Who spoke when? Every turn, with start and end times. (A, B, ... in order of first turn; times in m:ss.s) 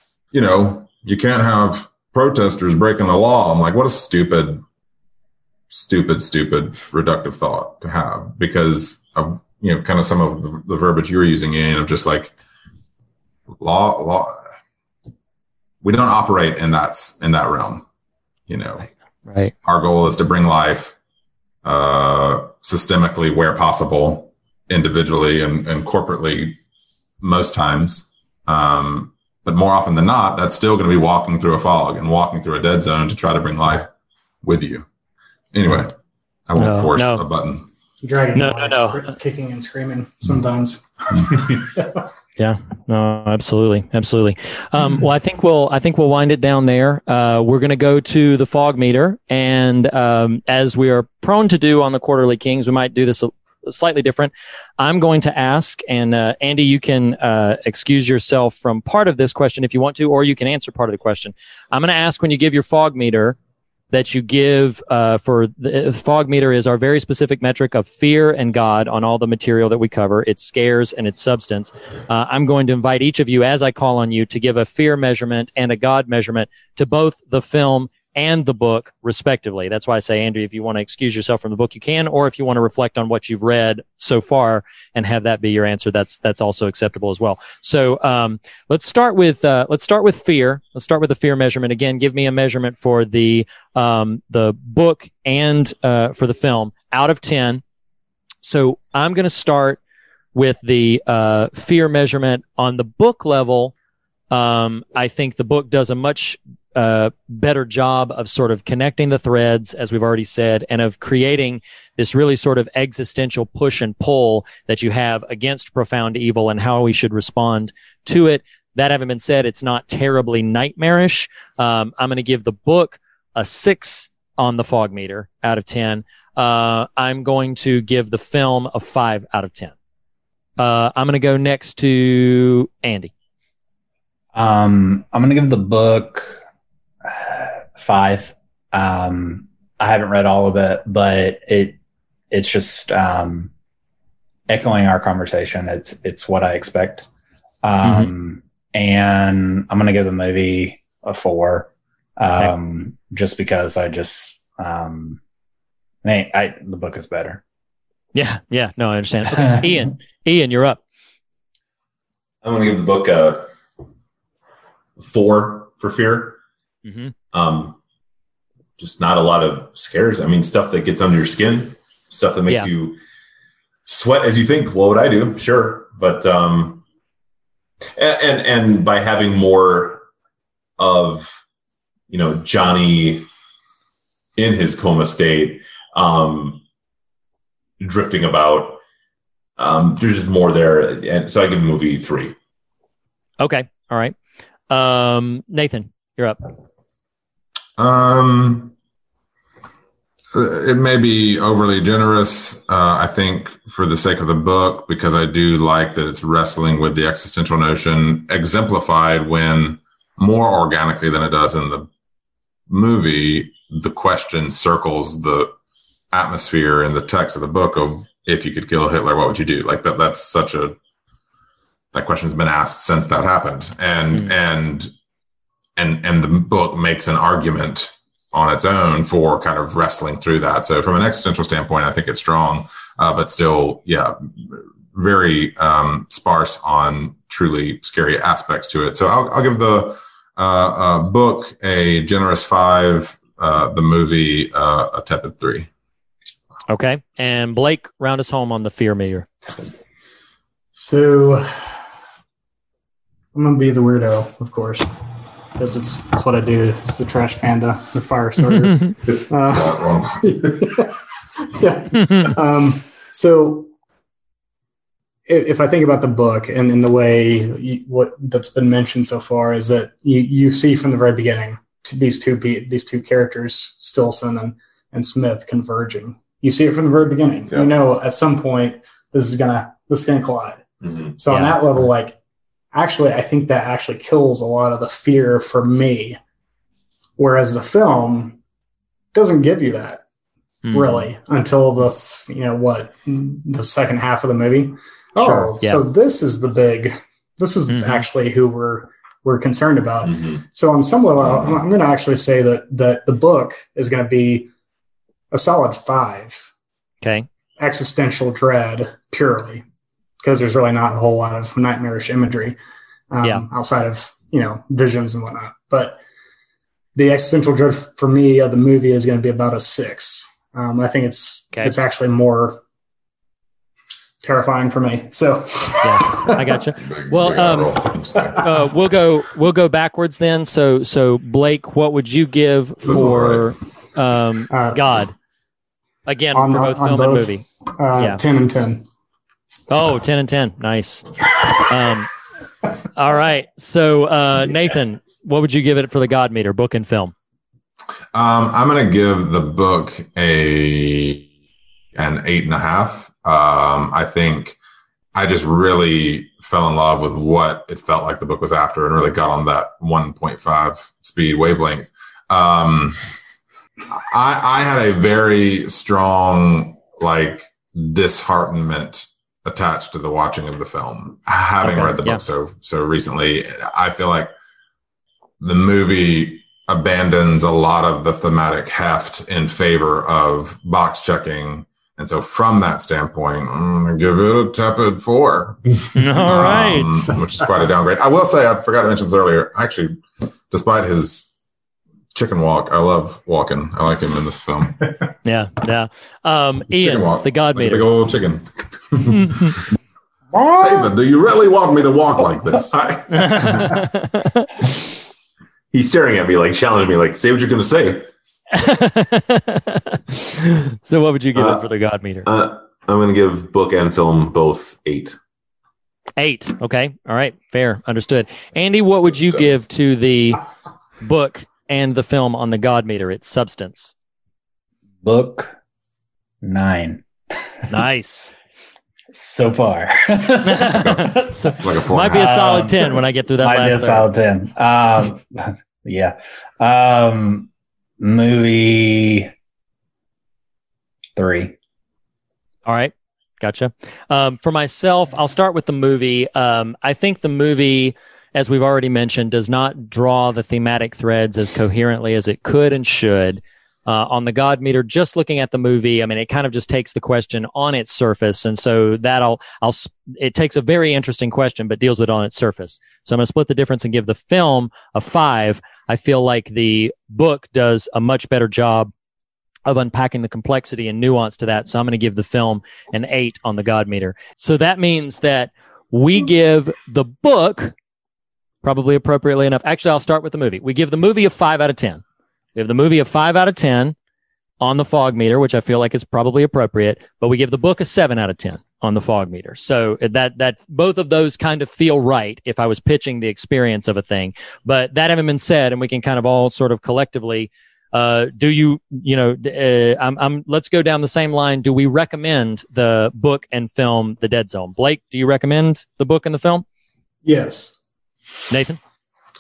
0:00.3-0:04.6 A
0:05.7-0:12.4 A
0:13.6-0:14.4 A
0:15.8-0:17.8 A
0:18.5-0:18.9 A
0:19.3-0:19.5 B
0:19.6-0:21.0 A
0:21.6-0:26.6 A
0:27.2-0:33.9 A
0:34.4-0:34.9 A
0:35.5-0:35.9 A
0:36.5-0:37.7 A
0:36.6-0:37.2 B
0:38.0-0:40.8 C
0:38.4-0:39.0 B
0:42.4-1:03.4 B
1:03.9-1:37.6 B
1:38.4-1:39.8 B
1:40.4-1:43.7 B
1:44.3-2:09.7 B
2:10.6-2:13.1 B
2:14.3-2:16.4 D
2:17.0-2:21.8 D
2:22.3-2:23.5 D
2:24.5-2:27.1 D
2:27.6-2:35.2 D
2:27.8-2:28.1 B
2:36.0-2:37.4 D
2:38.2-2:40.8 B
2:39.3-2:39.8 D
2:42.4-2:43.5 E
2:45.0-2:46.4 E
2:46.8-2:47.1 B
2:47.3-2:47.8 E
2:48.8-2:53.0 E
2:53.9-2:56.8 E
2:58.0-3:00.0 E
3:00.8-3:01.4 E
3:02.1-3:03.3 E
3:04.4-3:06.6 E
3:07.8-3:08.8 E
3:09.6-3:12.4 E
3:13.4-3:14.2 B
3:14.7-3:16.4 B
3:17.8-3:18.7 A
3:20.3-3:31.9 A
3:32.7-3:35.5 A
3:36.1-3:40.8 A
3:41.9-3:44.9 A
3:45.8-4:05.7 A
4:06.7-4:09.3 B
4:10.8-4:11.8 C
4:13.3-4:14.9 C
4:15.6-4:20.9 C
4:19.5-4:20.6 A
4:21.6-4:23.7 C
4:22.0-4:22.3 B
4:25.3-4:40.6 C
4:40.8-4:41.1 E
4:41.2-4:42.2 C
4:41.3-4:41.8 B
4:42.7-4:46.2 C
4:47.2-4:48.4 C
4:49.1-4:50.0 C
4:50.6-4:51.1 B
4:50.7-5:04.5 C
4:55.2-4:55.8 B
4:57.7-4:58.0 B
5:00.0-5:00.4 E
5:01.2-5:01.6 A
5:05.3-5:06.5 C
5:07.0-5:07.3 B
5:07.6-5:09.6 C
5:10.2-5:12.6 C
5:13.1-5:16.0 C
5:17.0-5:22.6 C
5:24.2-5:25.9 C
5:25.8-5:27.8 B
5:26.8-5:28.4 A
5:28.4-5:35.1 B
5:32.9-5:33.5 A
5:34.5-5:34.8 C
5:36.1-5:37.5 B
5:36.3-5:38.8 C
5:39.7-5:42.1 B
5:42.9-5:47.1 B
5:48.1-5:51.3 A
5:52.0-5:54.6 A
5:55.1-6:03.0 A
6:03.9-6:14.3 A
6:11.6-6:12.2 B
6:15.4-6:31.3 A
6:26.0-6:27.1 B
6:32.1-6:34.9 A
6:35.2-6:37.8 B
6:36.7-6:39.5 A
6:39.1-6:39.5 B
6:40.6-6:42.7 A
6:42.7-6:43.5 E
6:43.1-6:44.5 B
6:45.7-6:48.0 E
6:48.5-6:52.3 B
6:51.4-6:51.6 E
6:52.2-6:55.2 E
6:56.2-7:00.4 B
7:01.0-7:03.9 B
7:05.0-7:05.6 D
7:06.4-7:07.0 D
7:07.7-7:08.3 B
7:09.1-7:11.3 D
7:10.4-7:14.1 B
7:10.7-7:12.6 A
7:12.0-7:17.5 D
7:18.0-7:19.3 D
7:21.2-7:21.6 D
7:22.7-7:48.9 B
7:49.7-7:57.7 B
7:58.6-8:02.0 B
8:02.6-8:04.0 B
8:04.6-8:26.6 B
8:27.2-8:27.8 C
8:28.5-8:28.8 B